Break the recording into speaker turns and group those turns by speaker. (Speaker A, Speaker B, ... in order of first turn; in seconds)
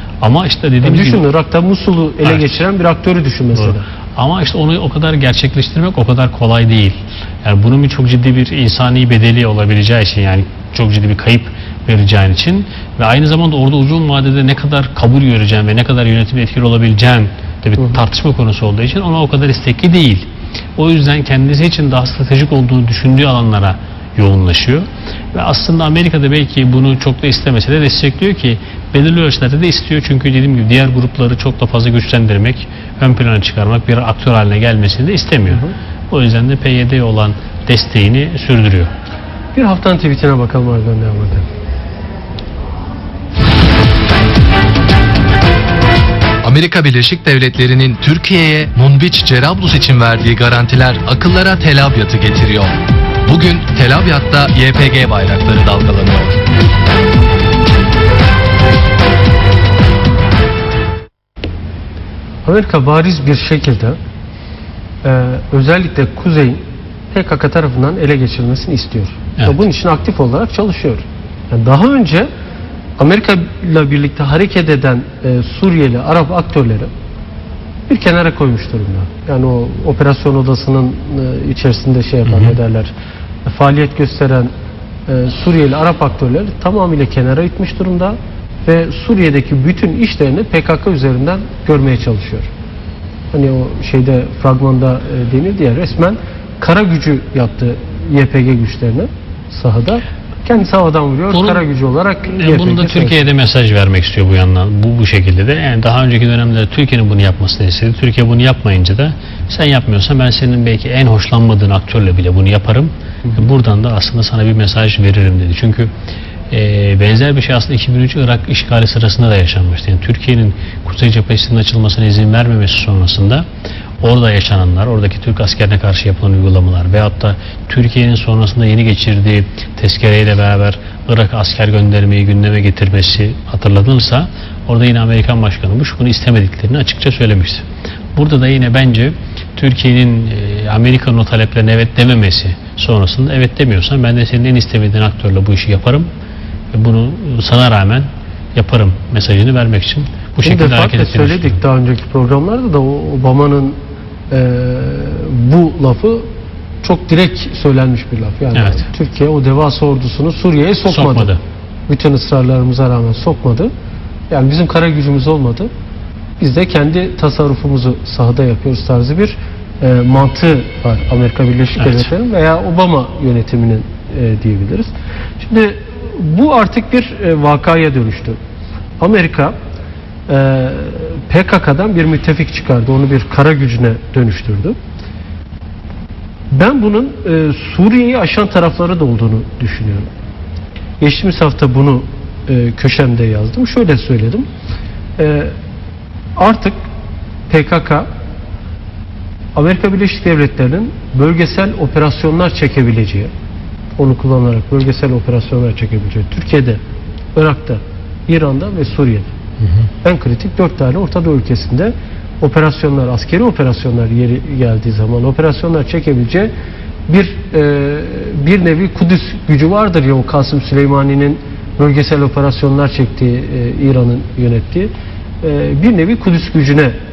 Speaker A: 0.2-1.2, 2.2-2.6, 3.5-38.9, 82.3-82.6, 101.3-101.7, 102.3-115.9, 116.5-123.5, 124.0-137.7, 138.2-146.1, 146.7-151.6, 158.6-158.9, 160.9-161.4, 171.8-172.1
Speaker B: 0.8-3.9, 39.5-41.5, 62.5-64.0, 65.0-66.6, 67.1-72.3, 73.0-76.9, 77.9-82.9, 83.5-84.5, 85.1-92.5, 93.3-103.3, 150.4-153.8, 154.3-156.3, 156.8-161.3, 161.9-163.7, 164.3-165.7, 166.4-178.4, 179.0-179.6, 180.3-184.8, 186.5-190.1, 191.0-194.5, 195.2-195.5, 196.4-196.8, 197.5-198.1, 199.6-203.3, 204.0-206.8, 207.3-209.3, 210.0-216.5, 217.1-224.9, 225.4-227.0
Speaker C: 46.4-56.4